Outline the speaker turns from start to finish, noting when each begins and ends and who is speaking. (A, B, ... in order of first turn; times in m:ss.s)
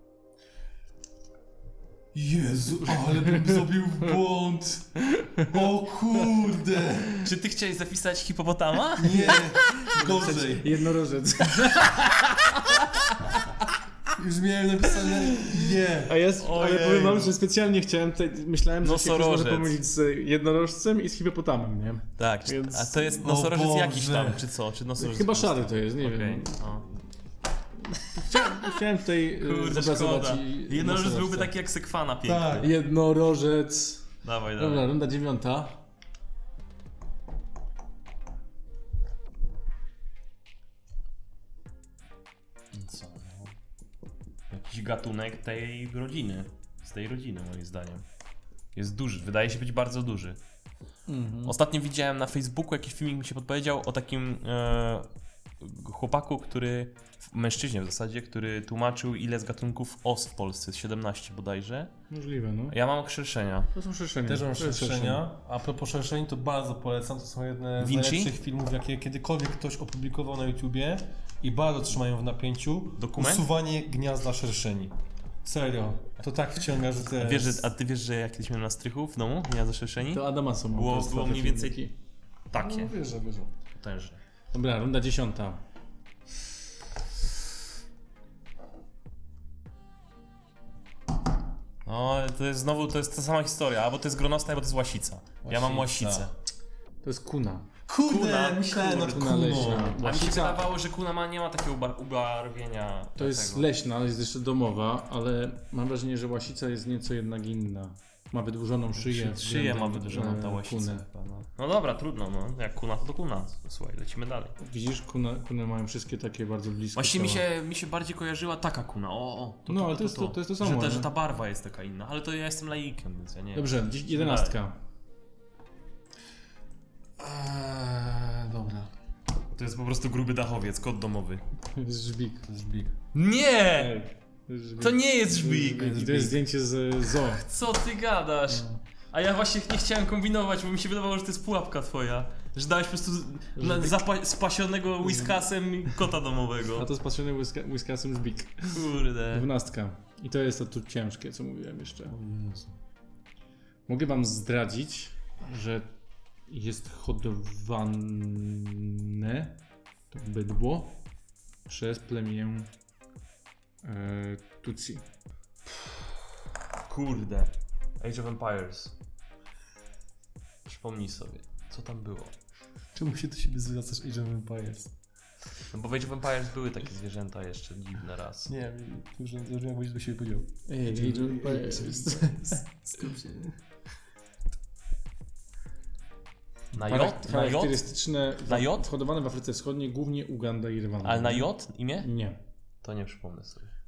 0:02.1-0:07.3 A
0:05.1-0:05.5 B
0:07.2-0:09.7 C
0:09.0-0:10.8 A
0:09.1-0:12.9 B
0:14.1-0:16.1 A
0:15.0-0:23.2 B
0:16.4-0:17.3 C
0:18.8-0:19.8 C
0:22.2-0:26.9 C
0:23.2-0:24.4 A
0:25.0-0:26.9 B
0:28.2-0:31.5 B
0:29.4-0:32.7 C
0:32.2-0:32.7 A
0:32.6-0:35.8 B
0:34.2-0:34.9 C
0:42.7-0:43.6 C
0:44.5-0:48.0 C
0:48.7-0:50.4 C
0:51.1-0:51.6 B
0:51.4-1:01.9 C
1:02.1-1:02.8 B
1:02.7-1:03.7 C
1:03.7-1:05.3 B
1:04.2-1:17.7 A
1:07.8-1:08.3 C
1:13.0-1:13.5 C
1:17.1-1:21.8 C
1:20.0-1:21.9 B
1:22.5-1:22.9 C
1:22.5-1:23.5 A
1:23.8-1:24.2 C
1:24.5-1:25.6 B
1:31.8-1:36.3 C
1:35.4-1:36.3 A
1:37.0-1:37.6 B
1:37.9-1:40.0 A
1:38.0-1:39.2 C
1:38.9-1:40.6 B
1:39.9-1:43.7 C
1:43.2-1:51.0 B
1:49.0-1:49.3 A
1:49.1-1:54.6 C
1:54.6-1:57.4 B
1:56.9-2:04.6 C
1:59.7-2:01.1 B
2:03.5-2:04.8 B
2:07.2-2:08.9 A
2:09.5-2:11.4 C
2:11.7-2:12.4 B
2:12.4-2:12.9 A
2:13.1-2:14.0 C
2:13.7-2:17.4 B
2:14.8-2:15.9 C
2:15.6-2:16.4 A
2:17.2-2:26.9 C
2:18.5-2:18.8 A
2:23.6-2:24.0 B
2:25.0-2:25.4 B
2:26.7-2:32.1 B
2:28.7-2:29.5 C
2:32.1-2:32.7 A
2:33.9-2:35.8 B
2:36.5-2:39.6 B
2:40.1-2:41.0 B
2:41.7-2:42.7 B
2:43.8-2:45.0 B
2:46.8-2:48.9 C
2:50.6-2:52.3 C
2:52.9-2:54.9 A
2:55.7-2:58.5 C
2:58.4-3:03.6 A
3:00.7-3:02.6 B
3:06.7-3:07.8 C
3:06.9-3:12.4 B
3:08.4-3:08.9 C
3:11.0-3:12.1 C
3:12.8-3:13.7 C